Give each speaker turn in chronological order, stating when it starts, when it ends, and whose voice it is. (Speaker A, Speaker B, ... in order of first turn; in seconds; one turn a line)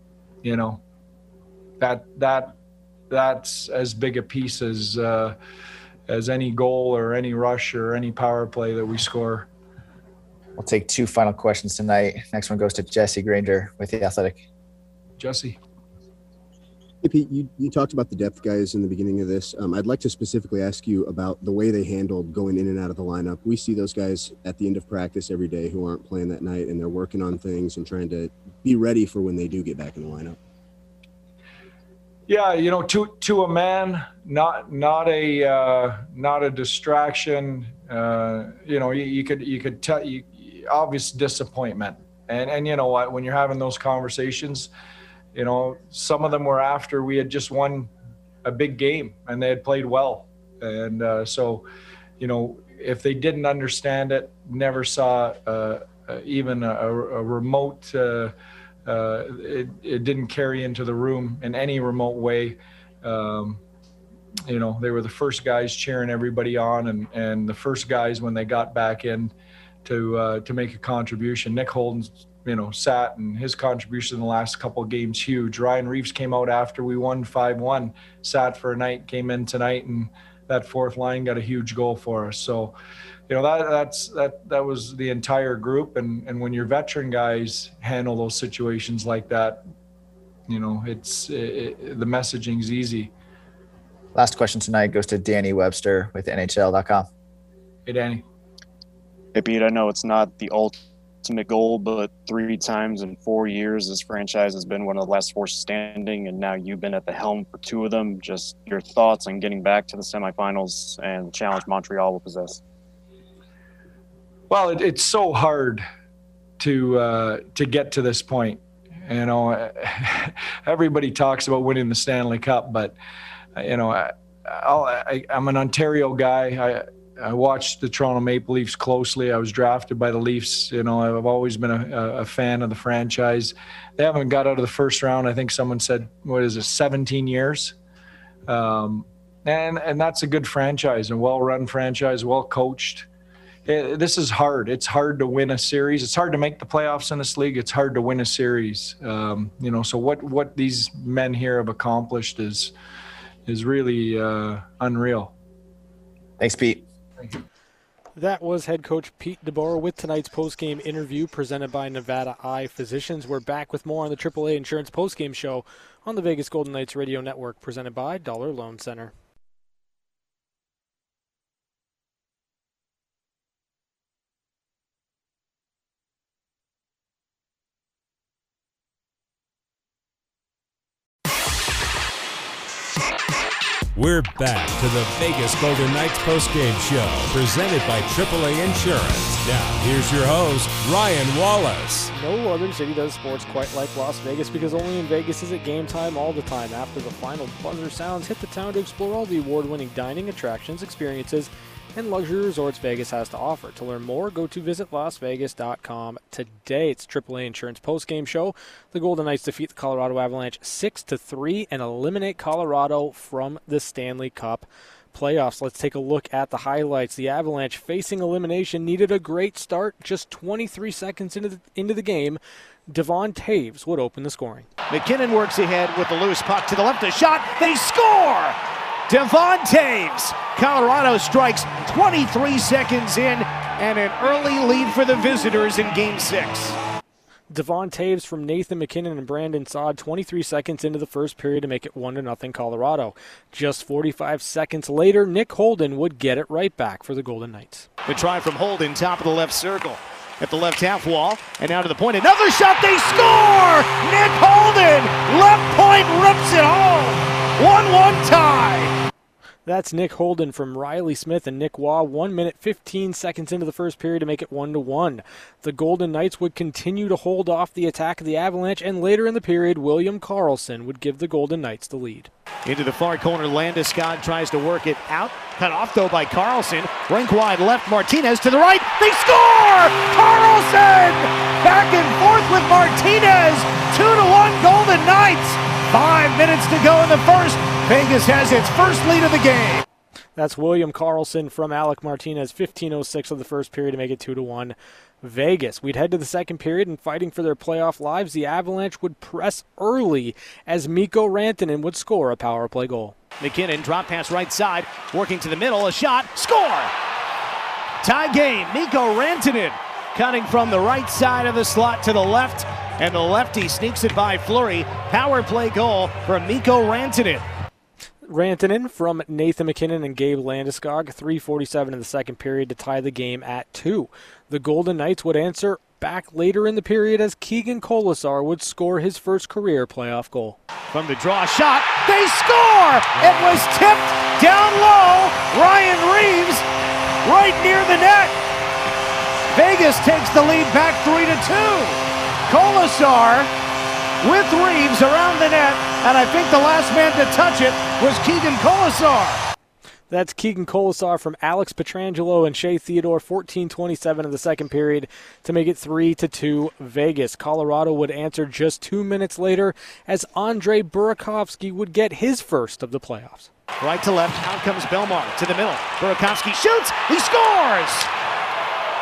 Speaker A: 0.4-0.8
Speaker A: 1.8-2.6
Speaker A: 3.1-5.4
Speaker A: 6.1-9.5
Speaker B: 10.6-14.4
Speaker A: 15.2-15.6
Speaker C: 17.0-30.4
Speaker A: 32.3-44.7
Speaker A: 45.3-47.9
Speaker A: 48.4-51.7
Speaker A: 52.2-58.3
Speaker A: 58.9-63.6
Speaker A: 64.5-69.3
Speaker A: 69.8-82.8
Speaker A: 83.3-89.6
Speaker A: 90.5-93.1
Speaker B: 94.1-97.1
Speaker A: 97.9-98.2
Speaker D: 99.3-112.6
Speaker A: 114.5-115.8
Speaker A: 116.6-123.0
Speaker A: 123.6-137.8
Speaker A: 138.5-143.1
Speaker A: 143.7-152.7
Speaker A: 153.5-155.3
Speaker B: 156.4-156.8
Speaker E: 158.2-169.1
Speaker F: 183.9-192.1
Speaker E: 192.1-224.7
Speaker G: 224.9-228.6
Speaker G: 229.1-236.8
Speaker E: 237.5-247.9
Speaker G: 248.1-258.9
Speaker E: 259.6-272.3
Speaker G: 272.6-289.8
Speaker E: 290.4-303.2
Speaker G: 303.4-306.9
Speaker G: 308.0-317.4
Speaker E: 318.2-330.6
Speaker G: 330.9-336.6
Speaker G: 337.2-338.4
Speaker G: 339.5-343.5
Speaker G: 344.2-349.4
Speaker E: 350.1-363.5
Speaker G: 363.8-368.1